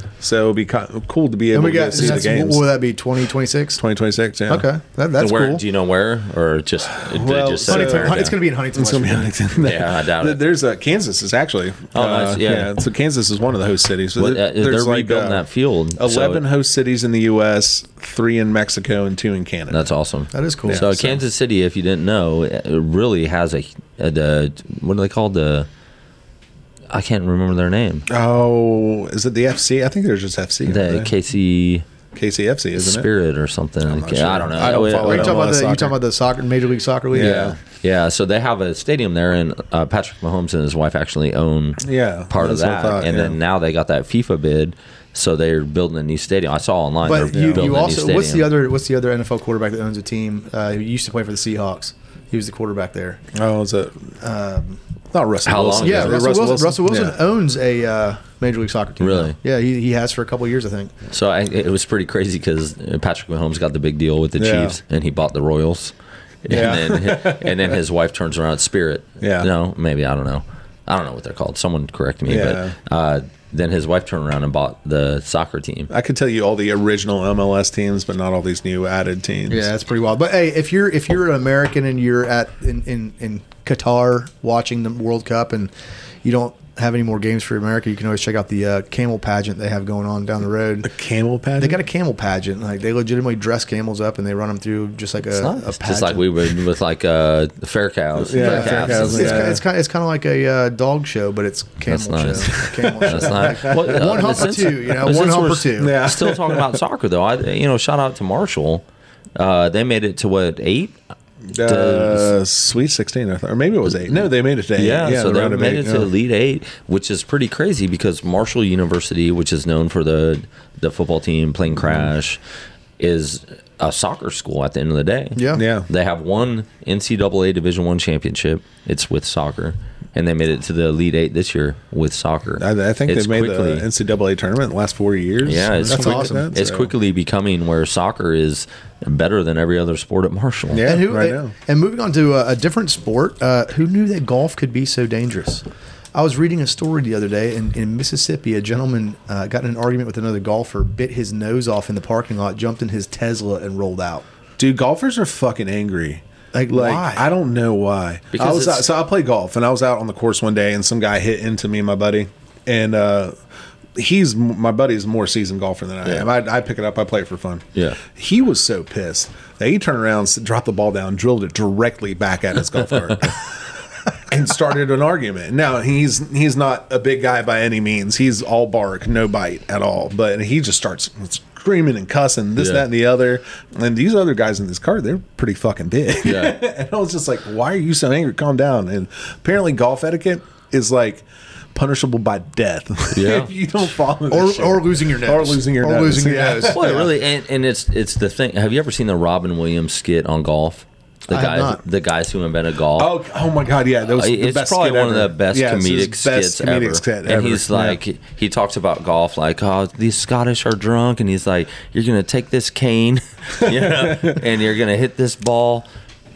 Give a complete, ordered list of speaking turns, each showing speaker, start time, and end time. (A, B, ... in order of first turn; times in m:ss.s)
0:00.2-0:02.7 A
0:01.5-0:03.8 B
0:03.8-0:04.7 A
0:04.5-0:05.6 B
0:05.2-0:08.4 C
0:07.0-0:15.4 A
0:07.7-0:09.5 B
0:09.6-0:10.4 C
0:11.9-0:12.7 C
0:14.2-0:16.4 C
0:16.0-0:19.9 A
0:19.7-0:25.7 C
0:20.3-0:20.8 B
0:20.7-0:21.2 A
0:26.9-0:28.1 C
0:28.1-0:31.1 A
0:30.7-0:31.8 C
0:32.1-0:33.1 A
0:32.8-0:35.4 C
0:33.8-0:36.0 A
0:35.0-0:37.5 B
0:37.1-0:37.6 A
0:37.2-0:48.5 C
0:41.8-0:43.4 A
0:47.0-0:53.2 B
0:47.3-0:47.8 A
0:53.3-0:54.1 A
0:54.2-0:54.8 B
0:55.1-0:57.2 A
0:55.4-0:56.3 C
0:55.8-1:00.9 B
0:59.0-0:59.4 C
1:01.1-1:15.9 C
1:04.4-1:04.8 A
1:06.5-1:07.8 A
1:09.2-1:09.5 A
1:12.3-1:12.8 A
1:15.9-1:19.7 A
1:19.5-1:25.7 B
1:26.2-1:30.9 B
1:30.8-1:31.8 A
1:31.6-1:36.3 B
1:35.3-1:39.6 C
1:38.2-1:39.6 A
1:38.4-1:46.0 B
1:41.8-1:48.8 C
1:42.5-1:44.5 A
1:45.8-1:46.8 A
1:49.4-1:51.0 C
1:51.5-1:56.1 A
1:51.6-1:52.4 C
1:54.8-2:02.4 C
2:01.8-2:02.1 A
2:03.0-2:13.9 C
2:05.4-2:05.6 B
2:05.6-2:05.9 A
2:12.6-2:16.9 A
2:15.4-2:20.8 C
2:15.9-2:16.5 B
2:20.7-2:21.5 A
2:20.8-2:34.2 B
2:34.6-2:43.4 A
2:36.5-2:37.3 B
2:38.3-2:38.9 C
2:44.0-2:53.6 A
2:47.8-2:48.0 C
2:54.3-3:17.1 A
3:02.6-3:02.8 C
3:06.2-3:06.6 C
3:13.2-3:13.5 C
3:14.3-3:17.1 B
3:16.6-3:23.2 C
3:21.3-3:21.8 B
3:23.0-3:28.0 A
3:24.1-3:35.9 C
3:33.6-3:34.4 A